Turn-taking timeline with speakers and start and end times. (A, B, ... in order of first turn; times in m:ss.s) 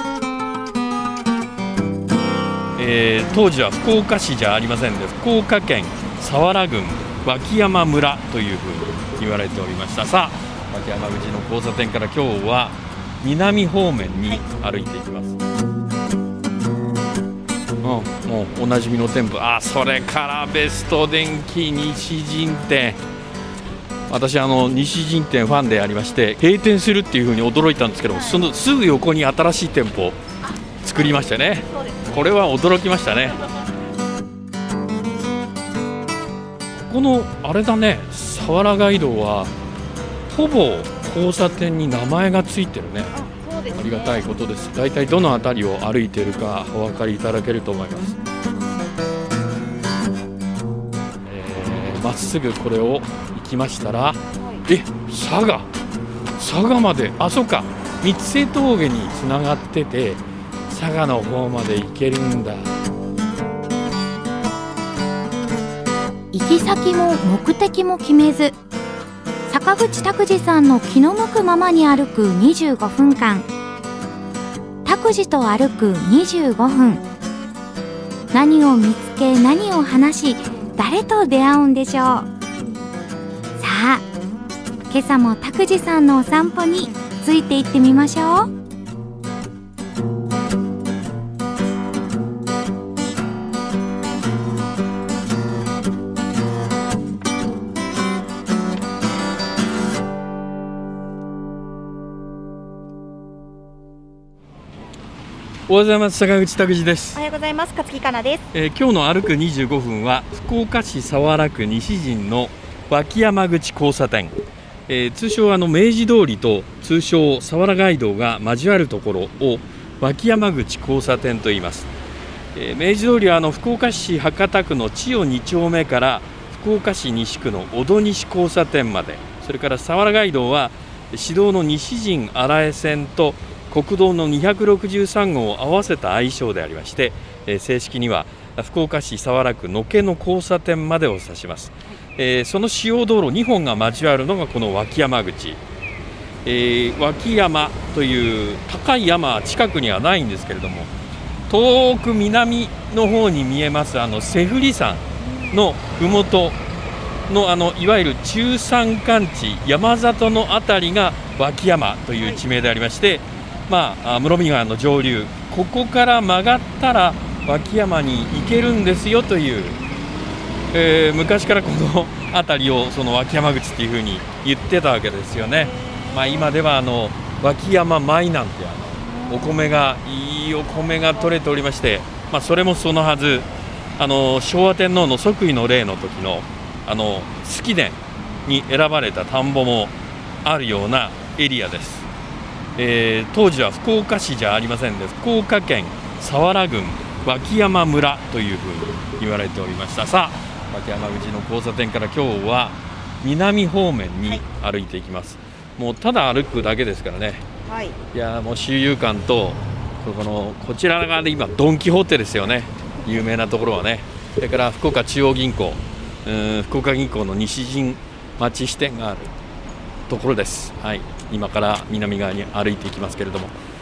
0:02.8-0:15.4 A
0:17.8-0:23.0 A
0:24.1-0:30.2 A
0:28.1-0:28.5 B
0:30.8-0:33.4 A
0:31.0-0:32.2 B
0:36.8-0:39.5 A
0:40.3-0:43.2 A
0:43.1-0:44.2 B
0:43.7-0:48.2 A
0:51.2-0:55.7 A
0:54.4-0:54.6 B
0:56.4-1:02.7 A
1:06.3-1:08.6 C
1:09.5-1:13.5 C
1:14.8-1:17.0 C
1:18.3-1:22.3 C
1:23.6-1:24.0 C
1:24.9-1:28.5 C
1:45.7-1:47.2 A
1:47.1-1:48.5 B
1:48.5-2:01.9 A
2:02.5-2:25.6 A
2:26.4-2:30.9 A
2:31.5-2:36.6 A
2:35.2-2:35.6 B
2:37.3-2:49.8 A
2:50.7-3:12.1 A
2:55.4-2:56.5 B
2:59.0-2:59.9 B
3:00.8-3:01.3 B
3:12.8-3:27.4 A
3:27.6-3:28.0 B
3:28.1-3:39.3 A
3:40.1-3:43.5 A